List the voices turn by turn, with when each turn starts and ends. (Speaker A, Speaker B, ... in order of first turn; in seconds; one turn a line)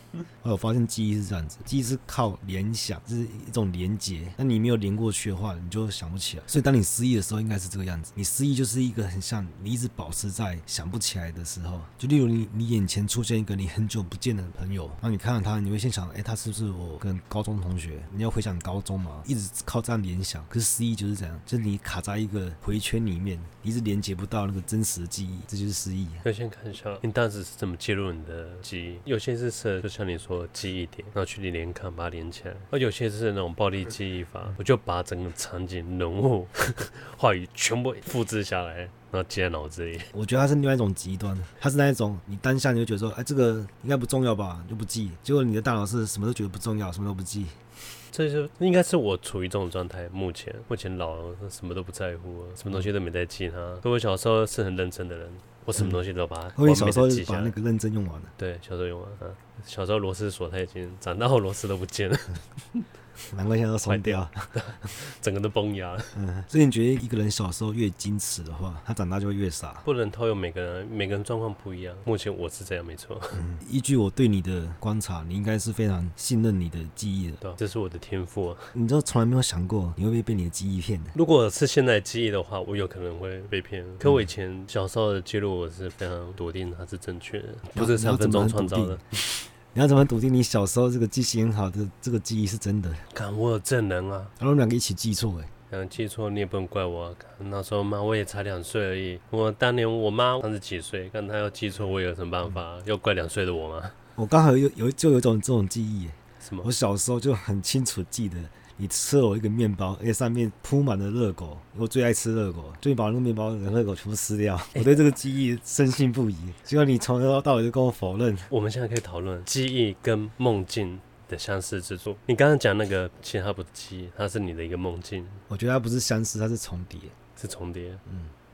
Speaker A: 0.4-26.2
Speaker B: 26.2-40.1
Speaker A: 40.1-47.6
Speaker B: 48.1-57.6
Speaker A: 56.5-58.3
Speaker B: 58.4-62.9
Speaker A: 63.3-64.6
Speaker B: 63.9-66.2
Speaker A: 66.1-69.8
Speaker B: 69.8-73.4
Speaker A: 73.3-77.4
Speaker B: 77.4-78.7
Speaker A: 78.7-81.2
Speaker B: 81.2-89.0
Speaker A: 87.7-93.1
Speaker B: 93.1-94.3
Speaker A: 94.4-95.5
Speaker B: 95.7-104.0
Speaker A: 104.2-118.5
Speaker B: 106.4-106.7
Speaker B: 118.5-125.4
Speaker A: 125.5-127.1
Speaker B: 127.4-128.0
Speaker A: 128.1-128.3